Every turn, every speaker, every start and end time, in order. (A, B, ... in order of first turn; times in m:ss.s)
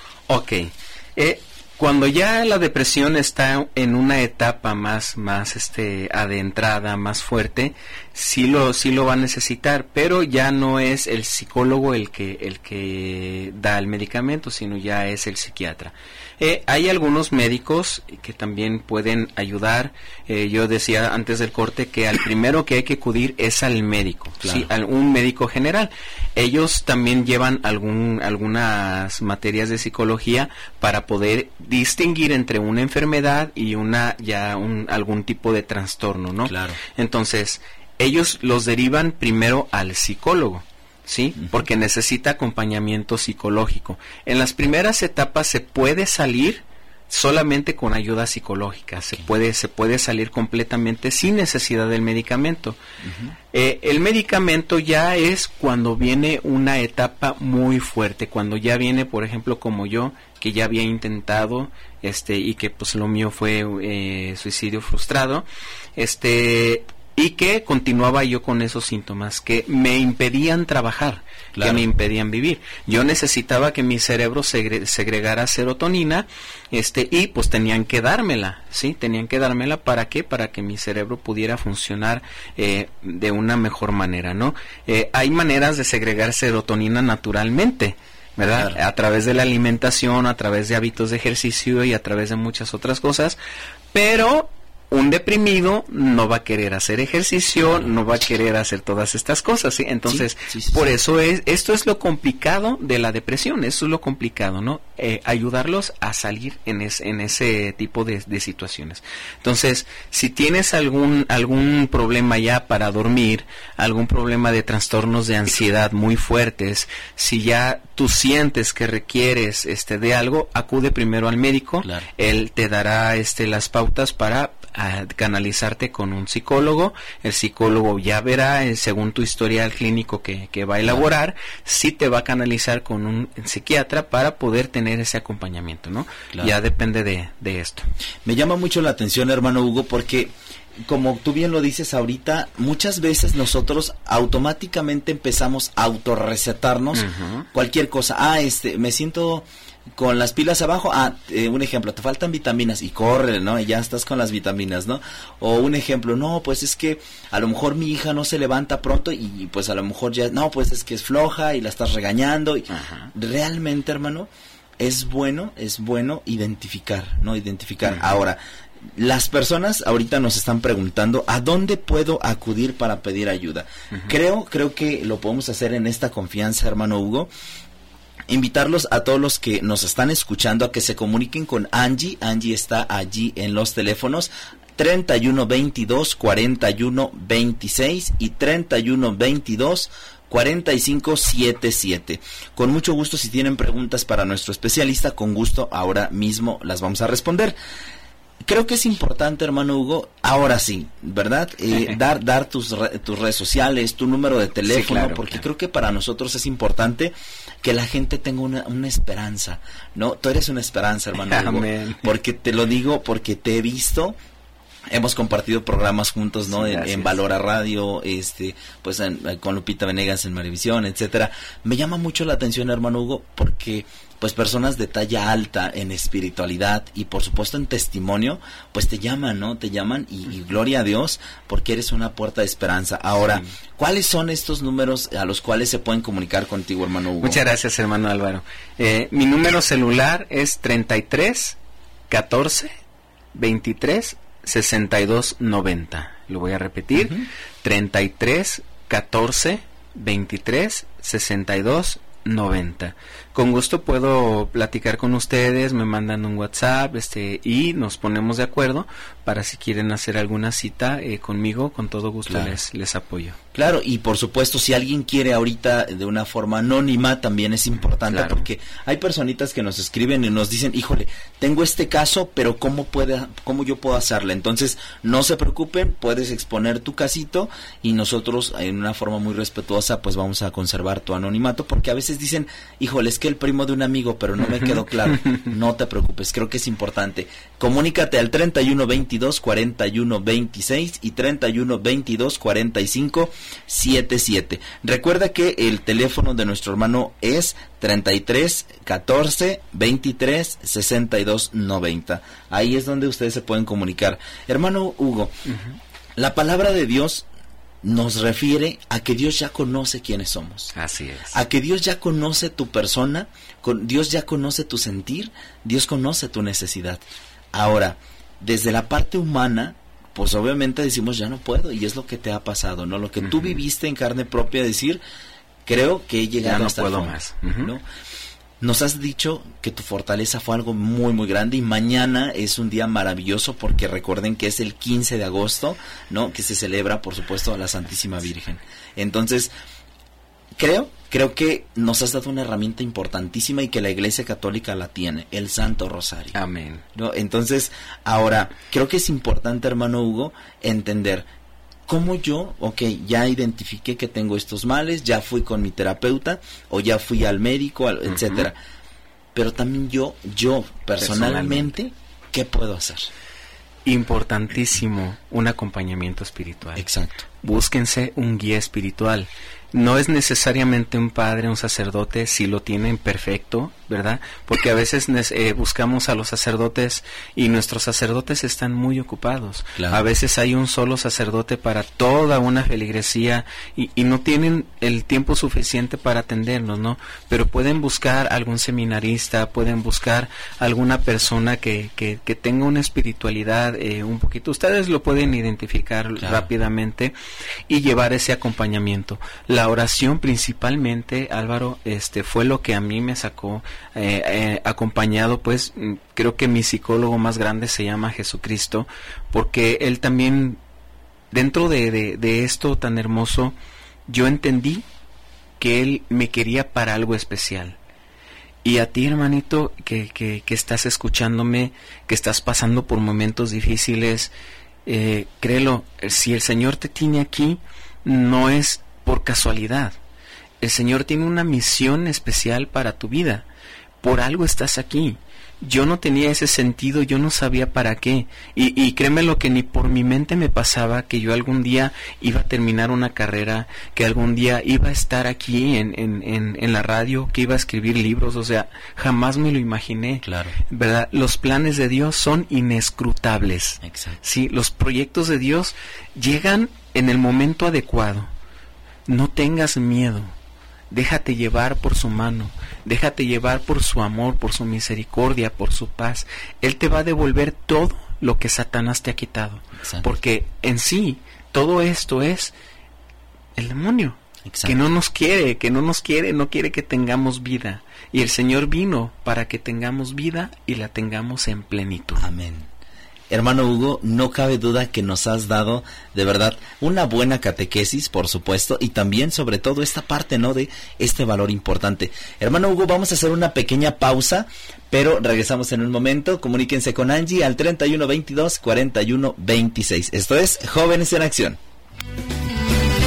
0:00.3-0:52.8 A
0:24.4-0:24.7 B
0:36.5-0:36.8 B
0:53.0-0:53.4 B
0:53.5-1:05.4 A
1:06.0-1:33.4 A
1:11.6-1:11.8 B
1:28.4-1:28.8 B
1:33.9-2:17.9 A
1:40.1-1:40.9 B
2:18.2-2:20.3 B
2:20.9-2:48.4 B
2:27.0-2:27.5 A
2:42.7-2:43.1 A
2:49.0-2:57.3 B
2:58.3-3:17.6 B
3:18.5-3:34.2 B
3:24.7-3:25.4 A
3:31.2-3:32.1 A
3:34.9-3:57.4 B
3:36.5-3:37.2 A
3:53.2-3:53.5 A
3:57.2-4:01.6 A
4:02.1-4:02.7 A
4:03.3-4:23.4 A
4:07.0-4:07.2 B
4:22.3-4:22.6 B
4:23.5-5:05.4 B
4:28.0-4:28.5 A
4:44.5-4:45.4 A
5:05.5-5:05.8 A
5:06.2-5:07.2 B
5:07.8-5:10.7 B
5:10.7-5:11.4 A
5:11.3-5:17.0 B
5:17.5-5:25.0 B
5:25.7-5:27.8 B
5:26.4-5:27.7 A
5:28.6-5:39.5 B
5:40.6-5:46.4 B
5:46.4-5:46.8 A
5:47.0-5:51.3 B
5:51.9-5:58.6 B
5:58.1-5:58.5 A
5:59.4-6:03.1 B
6:01.0-6:01.7 A
6:03.8-6:06.9 A
6:06.8-6:07.2 B
6:07.4-6:37.1 A
6:19.8-6:20.1 B
6:36.2-6:36.5 B
6:37.7-6:50.6 A
6:51.3-6:53.6 A
6:54.1-6:54.8 A
6:55.6-6:57.8 A
6:58.6-7:04.3 A
7:04.9-7:10.0 A
7:10.6-7:13.4 A
7:14.0-7:38.3 A
7:30.2-7:30.6 B
7:33.8-7:34.2 B
7:39.1-7:40.3 A
7:40.9-7:52.5 A
7:49.8-7:50.2 B
7:53.6-8:02.3 A
7:54.5-7:54.8 B
8:02.2-8:02.7 B
8:03.3-8:21.6 B